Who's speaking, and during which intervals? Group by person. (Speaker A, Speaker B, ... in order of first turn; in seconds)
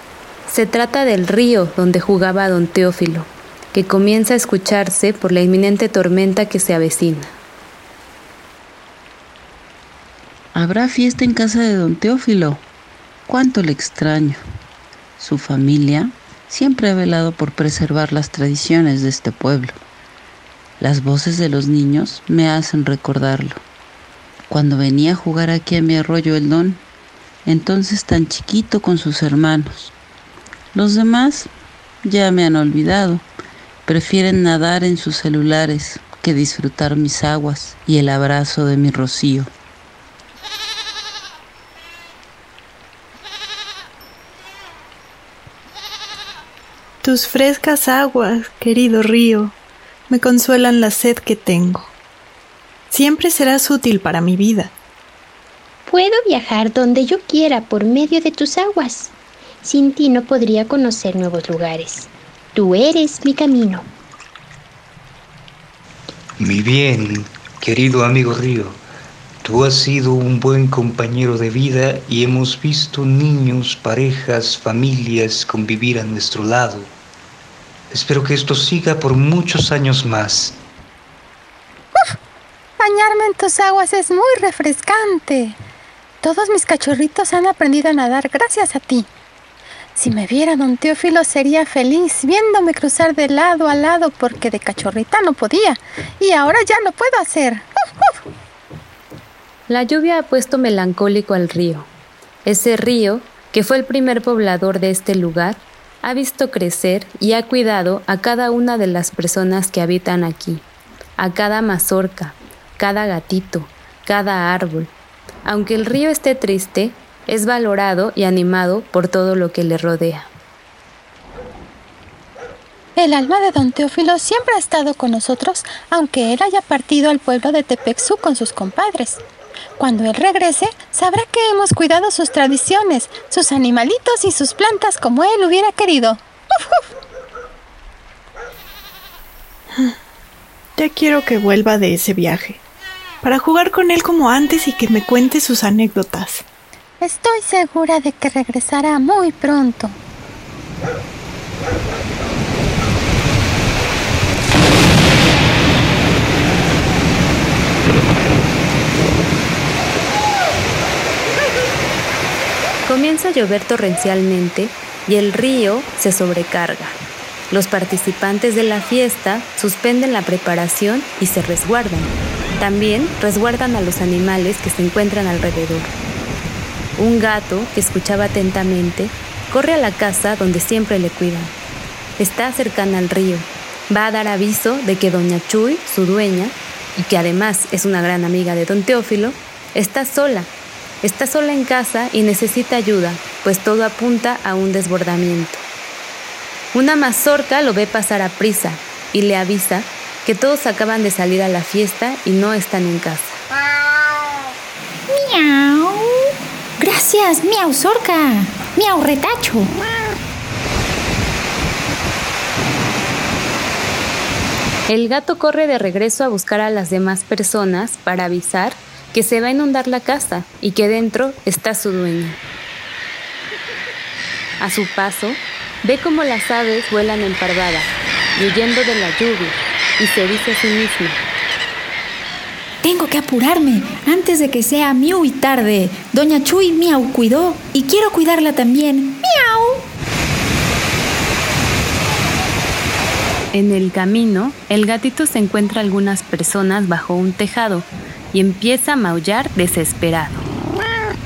Speaker A: 0.5-7.4, 99.7-101.9, 102.5-110.7, 111.2-114.9, 115.5-120.3, 162.9-167.0, 167.5-175.9, 177.0-181.6, 182.2-195.7, 196.7-203.4, 214.9-222.4, 224.6-231.2, 243.5-250.5
Speaker B: 10.5-12.6, 13.3-14.4, 15.2-19.8, 20.8-23.6, 24.5-26.9, 27.4-29.9, 30.7-31.5, 32.0-33.3, 33.9-39.5
Speaker C: 47.0-49.6, 50.1-51.9, 52.9-54.7, 140.8-142.6, 143.2-146.4
Speaker D: 55.9-59.1, 59.6-63.9
Speaker E: 66.4-68.8, 69.4-76.9, 77.9-80.6
Speaker F: 82.8-85.6, 86.2-89.1, 90.0-97.7, 123.0-129.2, 129.8-136.2, 147.0-150.0
Speaker G: 232.8-239.8